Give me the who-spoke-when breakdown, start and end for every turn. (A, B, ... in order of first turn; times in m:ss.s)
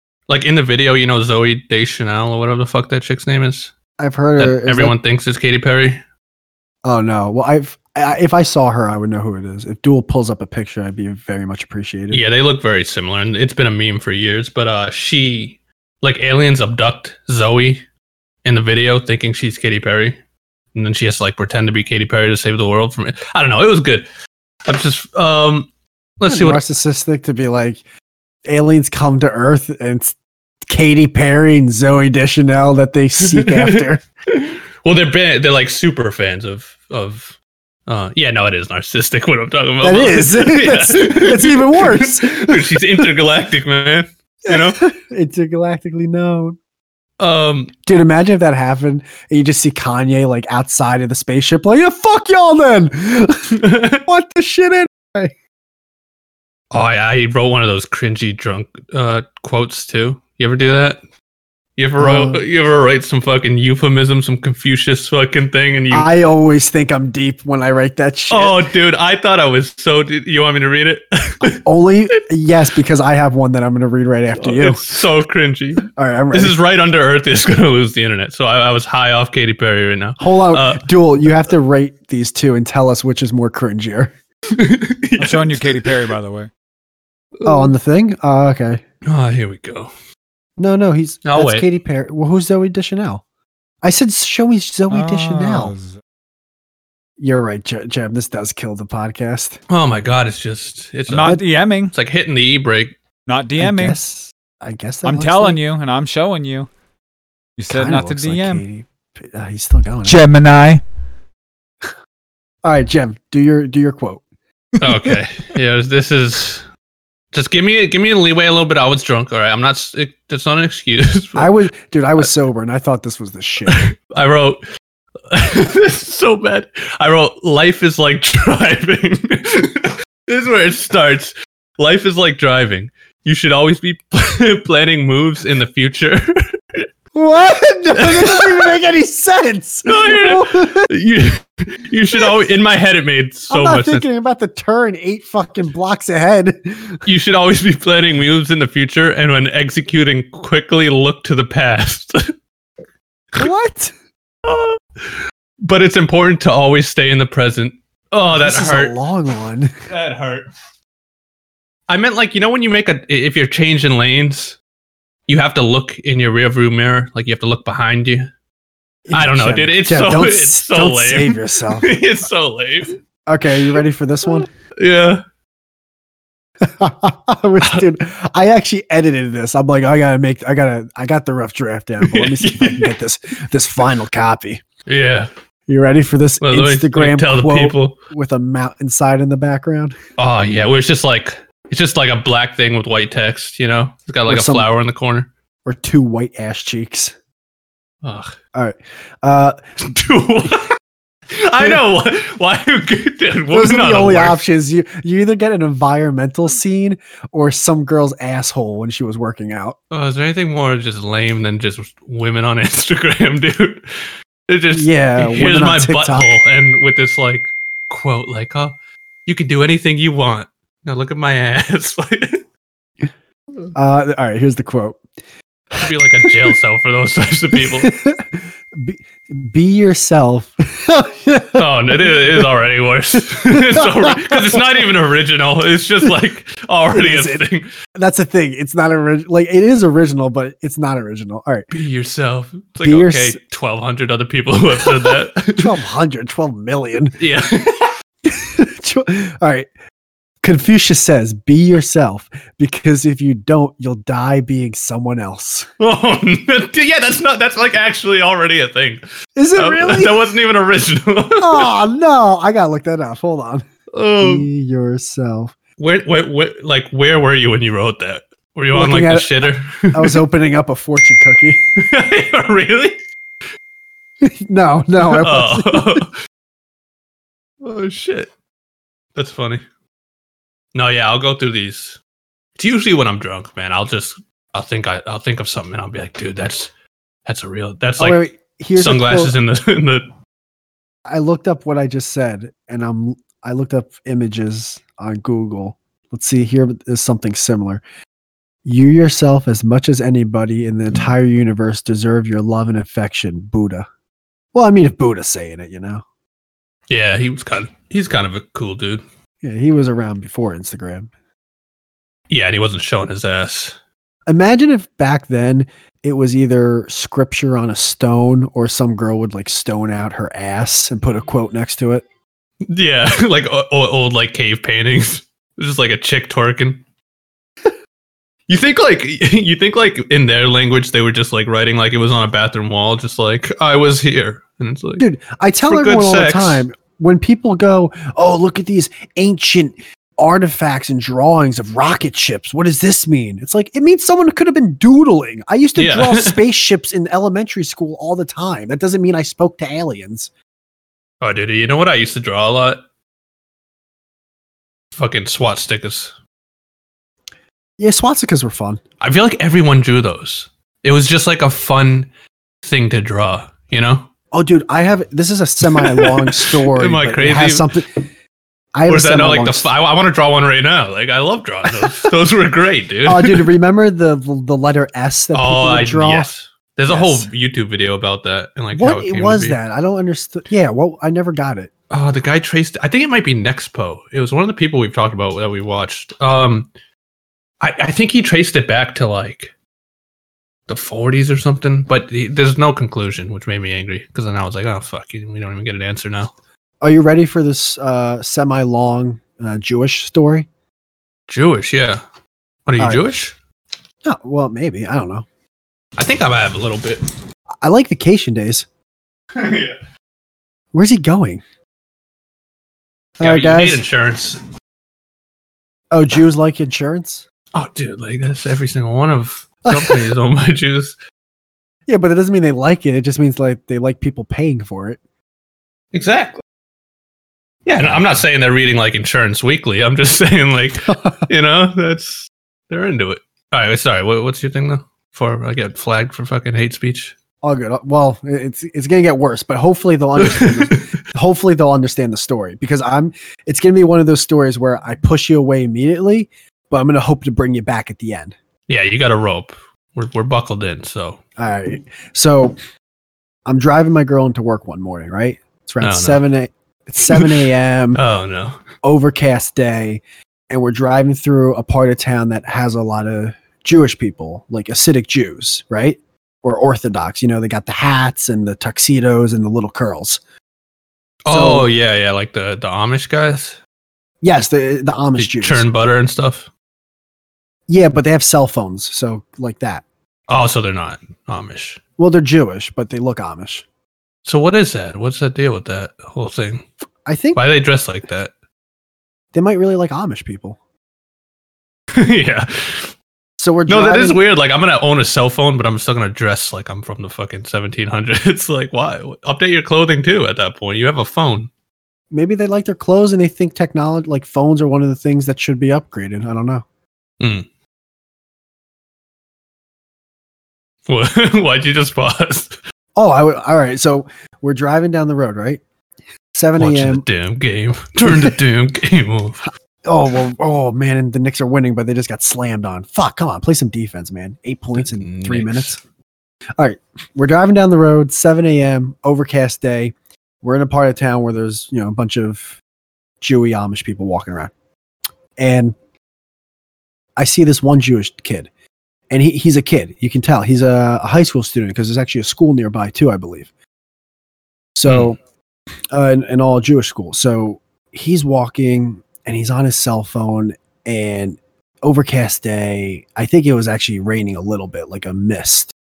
0:00.3-0:03.7 A
0:04.0-0:05.0 B
0:04.4-0:06.0 A
0:06.8-0:12.2 B
0:12.1-0:17.8 A
0:18.4-0:20.2 A
0:20.7-0:24.1 A
0:24.7-0:25.7 A
0:26.2-0:26.6 A
0:26.3-0:27.8 B
0:28.5-0:30.2 B
0:30.7-0:34.0 B
0:33.2-0:37.4 A
0:37.9-0:44.8 A
0:39.8-0:43.1 B
0:44.5-0:46.6 B
0:47.2-0:47.7 A
0:47.9-0:55.3 B
0:53.6-0:54.0 A
0:56.7-1:01.0 A
1:01.8-1:06.1 A
1:02.0-1:02.4 B
1:05.9-1:08.6 B
1:08.3-1:11.6 A
1:11.5-1:14.8 B
1:14.4-1:20.9 A
1:15.9-1:16.6 B
1:20.2-1:24.1 B
1:24.5-1:25.7 A
1:25.2-1:26.5 C
1:27.4-1:27.7 A
1:27.4-1:28.8 B
1:29.0-1:29.9 A
1:30.6-1:33.2 B
1:31.2-1:31.7 A
1:33.8-1:35.7 B
1:34.9-1:36.0 C
1:37.2-1:39.6 B
1:39.7-1:41.4 A
1:41.1-1:41.9 C
1:41.9-1:43.0 A
1:43.3-1:44.0 C
1:43.6-1:45.6 B
1:45.0-1:46.7 C
1:47.6-1:48.6 C
1:47.7-1:50.2 B
1:50.0-1:50.8 C
1:52.6-1:54.2 B
1:54.8-1:56.7 A
1:57.3-2:01.5 A
2:01.4-2:03.8 B
2:03.7-2:04.6 A
2:05.3-2:16.4 A
2:17.2-2:20.9 B
2:18.0-2:18.8 A
2:19.9-2:24.0 A
2:23.5-2:27.0 B
2:27.1-2:32.3 A
2:33.4-2:33.9 B
2:34.4-2:39.0 A
2:38.3-2:39.8 B
2:39.9-2:40.5 A
2:41.9-2:44.6 A
2:45.3-2:48.3 A
2:49.1-2:51.9 B
2:49.1-2:52.9 A
2:53.3-2:54.5 B
2:54.3-2:55.2 A
2:56.6-3:04.6 B
3:02.0-3:02.9 A
3:04.9-3:05.3 A
3:05.7-3:10.0 B
3:06.4-3:08.0 A
3:10.2-3:15.3 A
3:14.3-3:14.7 B
3:15.6-3:17.1 B
3:18.0-3:18.4 A
3:18.6-3:19.6 B
3:19.8-3:20.8 A
3:21.3-3:24.4 A
3:23.5-3:29.8 B
3:29.9-3:33.9 A
3:34.5-3:38.7 A
3:34.7-3:36.3 B
3:39.3-3:42.4 A
3:43.8-3:45.0 B
3:45.8-3:47.9 A
3:47.6-3:51.6 B
3:51.6-3:57.7 A
3:53.5-3:54.6 B
3:56.9-3:57.4 B
3:58.0-4:01.7 B
4:01.7-4:05.7 A
4:02.8-4:03.4 B
4:05.5-4:07.2 B
4:07.2-4:07.9 A
4:08.2-4:09.7 B
4:10.4-4:15.7 B
4:15.8-4:19.0 A
4:19.4-4:20.1 B
4:19.6-4:21.7 A
4:21.4-4:23.6 B
4:23.9-4:24.5 A
4:24.2-4:25.5 B
4:25.8-4:30.2 A
4:28.7-4:31.6 B
4:31.8-4:33.0 A
4:34.2-4:36.0 B
4:35.0-4:36.2 A
4:37.6-4:38.3 A
4:39.2-4:39.6 A
4:40.7-4:42.0 A
4:42.6-4:46.7 A
4:47.3-4:48.2 A
4:48.0-4:49.3 B
4:48.8-4:50.1 A
4:51.1-4:57.8 B
4:58.6-5:03.9 B
5:04.5-5:06.0 B
5:06.9-5:09.0 A
5:09.4-5:11.1 B
5:12.3-5:13.8 A
5:14.3-5:22.0 B
5:22.7-5:26.8 A
5:28.5-5:35.0 A
5:35.0-5:50.3 B
5:35.7-5:36.6 A
5:45.8-5:46.4 A
5:51.2-5:52.8 A
5:55.0-5:56.1 A
5:57.8-5:58.8 B
5:59.0-6:02.1 A
6:02.6-6:04.1 A
6:04.3-6:08.0 B
6:05.6-6:07.7 A
6:08.8-6:09.7 B
6:08.9-6:13.5 A
6:13.1-6:16.3 B
6:15.3-6:19.6 A
6:16.9-6:17.3 B
6:18.7-6:21.7 B
6:21.9-6:26.7 A
6:27.6-6:29.5 A
6:30.7-6:36.3 A
6:36.8-6:40.5 B
6:41.3-6:42.0 A
6:42.7-6:43.3 A
6:42.8-6:43.3 B
6:44.0-6:45.3 B
6:46.0-6:47.1 A
6:47.6-6:48.7 B
6:49.4-6:49.8 A
6:50.7-6:51.4 B
6:53.2-6:53.8 B
6:53.2-6:54.4 A
6:55.9-6:57.2 B
6:57.5-7:01.0 A
6:59.6-7:00.1 B
7:01.9-7:05.0 B
7:05.9-7:06.4 A
7:07.7-7:17.2 A
7:17.4-7:28.3 B
7:20.2-7:20.9 A
7:28.7-7:31.2 A
7:31.4-7:32.6 B
7:33.5-7:38.0 B
7:35.8-7:36.2 A
7:37.1-7:38.6 A
7:38.8-7:50.2 B
7:51.2-7:53.6 A
7:51.3-7:51.7 B
7:54.2-7:55.6 B
7:55.2-7:56.5 A
7:57.7-7:59.8 B
8:00.3-8:01.8 A
8:02.0-8:03.6 B
8:04.2-8:06.6 A
8:07.1-8:07.4 B
8:07.4-8:08.3 A
8:09.3-8:10.6 B
8:11.9-8:12.9 A
8:13.4-8:14.2 B
8:13.7-8:21.5 A
8:22.1-8:26.6 B
8:27.2-8:27.5 A
8:30.9-8:32.6 A
8:33.0-8:35.6 B
8:36.3-8:37.0 B
8:36.6-8:39.4 A
8:39.9-8:45.8 B
8:44.8-8:45.8 A
8:46.6-8:52.6 B
8:53.2-8:54.5 B
8:55.4-8:55.8 B
8:57.2-8:58.5 B
8:59.1-9:03.5 B
9:04.8-9:05.2 B
9:05.9-9:15.7 B